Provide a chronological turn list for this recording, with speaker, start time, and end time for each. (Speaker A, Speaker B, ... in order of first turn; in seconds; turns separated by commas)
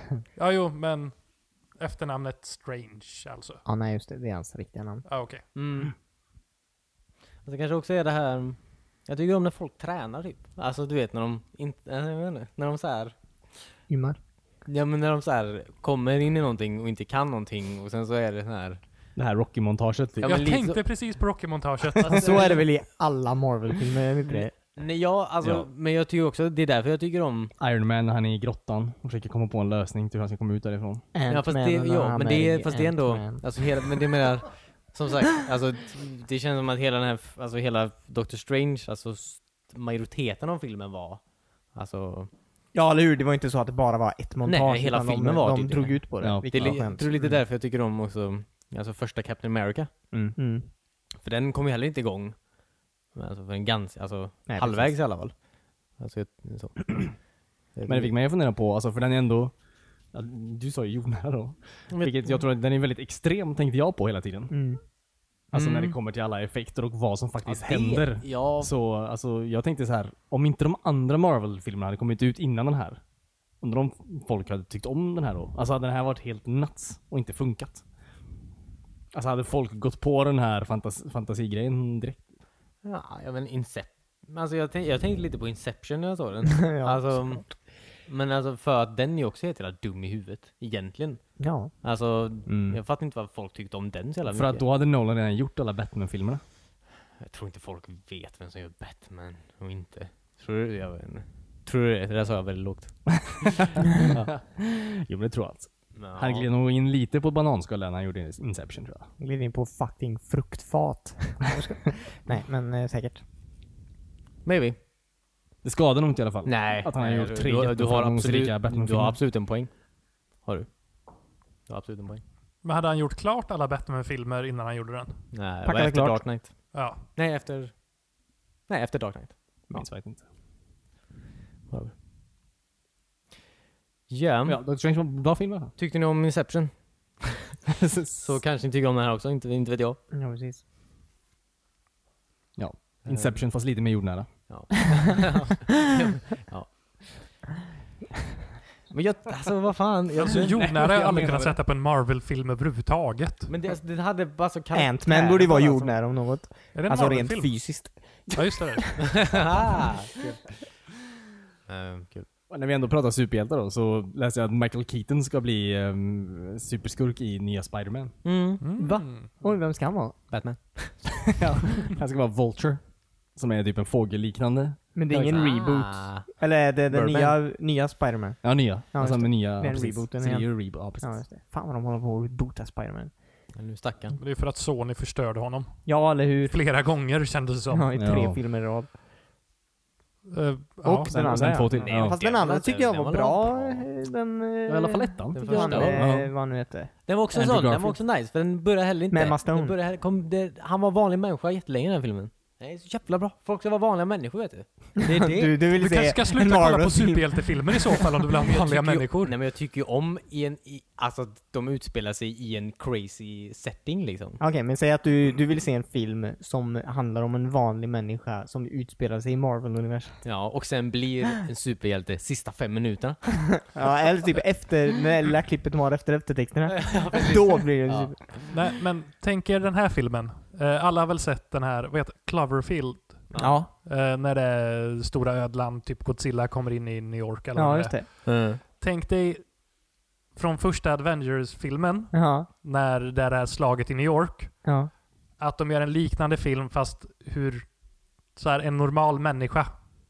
Speaker A: 0.3-3.6, Speaker B: 3.6-5.0, Speaker A: 5.0-5.4, Speaker C: 5.5-5.9, Speaker C: 7.4-13.7, Speaker B: 13.9-14.2, Speaker C: 14.6-18.8, Speaker D: 19.1-20.4, Speaker C: 20.2-21.0, Speaker A: 20.2-22.6, Speaker C: 22.0-22.6, Speaker B: 22.1-24.5, Speaker C: 24.2-27.5, Speaker D: 25.4-25.7, Speaker D: 27.6-31.0, Speaker B: 31.1-33.4, Speaker C: 31.3-42.3, Speaker B: 42.7-47.1, Speaker C: 44.4-50.0, Speaker D: 46.2-46.8, Speaker D: 50.1-50.4, Speaker B: 50.4-50.7, Speaker C: 51.1-52.5, Speaker C: 53.1-58.1, Speaker B: 54.5-55.0, Speaker D: 57.9-59.5, Speaker D: 60.1-64.5, Speaker C: 61.9-62.4, Speaker B: 64.5-64.8, Speaker D: 65.5-73.0, Speaker A: 65.5-65.9, Speaker C: 67.4-68.7, Speaker D: 73.6-77.8, Speaker D: 79.1-82.3, Speaker C: 82.8-94.6, Speaker B: 86.6-87.5, Speaker B: 91.4-91.7, Speaker D: 92.5-92.8, Speaker D: 94.3-96.4, Speaker C: 97.2-104.3, Speaker D: 104.3-109.1, Speaker C: 105.9-106.5, Speaker B: 109.2-113.2, Speaker C: 114.4-114.8, Speaker D: 115.6-119.2, Speaker C: 116.4-120.8, Speaker C: 121.7-122.2, Speaker A: 122.6-125.2, Speaker C: 125.3-127.8, Speaker B: 125.6-126.3, Speaker A: 126.7-127.0, Speaker C: 128.7-129.8, Speaker D: 129.7-130.2, Speaker C: 134.1-134.6, Speaker D: 134.4-135.7, Speaker C: 135.8-137.5, Speaker D: 137.8-138.4, Speaker C: 138.2-140.0, Speaker B: 140.1-140.6, Speaker D: 142.6-144.3, Speaker C: 143.0-143.5, Speaker C: 144.5-147.4, Speaker C: 148.9-150.9, Speaker A: 150.2-153.5, Speaker D: 150.3-151.6, Speaker C: 153.5-156.0, Speaker B: 154.7-159.1, Speaker A: 156.7-159.3, Speaker C: 159.0-160.3, Speaker C: 161.7-162.3, Speaker D: 162.5-168.2, Speaker C: 168.2-168.6, Speaker A: 168.6-169.3, Speaker B: 168.8-170.2, Speaker C: 170.3-171.4, Speaker D: 171.2-175.4, Speaker B: 174.9-183.1, Speaker C: 175.3-177.4, Speaker D: 178.4-181.2, Speaker C: 183.5-184.2, Speaker A: 184.2-187.9, Speaker B: 185.8-186.5, Speaker B: 187.7-188.9, Speaker D: 188.0-188.4, Speaker A: 190.3-191.6, Speaker B: 190.8-196.9, Speaker D: 191.1-192.2, Speaker C: 191.7-193.9, Speaker D: 194.7-196.3, Speaker C: 195.3-196.1, Speaker C: 197.1-205.6, Speaker D: 197.3-198.0, Speaker B: 199.1-199.8, Speaker B: 205.0-207.9, Speaker A: 205.7-209.3, Speaker C: 208.4-214.4, Speaker B: 214.4-220.2, Speaker C: 220.2-223.8, Speaker B: 223.7-228.5, Speaker C: 226.7-228.5, Speaker A: 228.5-239.7, Speaker C: 233.3-233.6, Speaker B: 233.4-233.7, Speaker B: 237.5-238.1, Speaker C: 238.2-238.6, Speaker A: 240.3-244.8, Speaker B: 242.1-242.5, Speaker B: 244.6-244.9, Speaker A: 245.3-249.8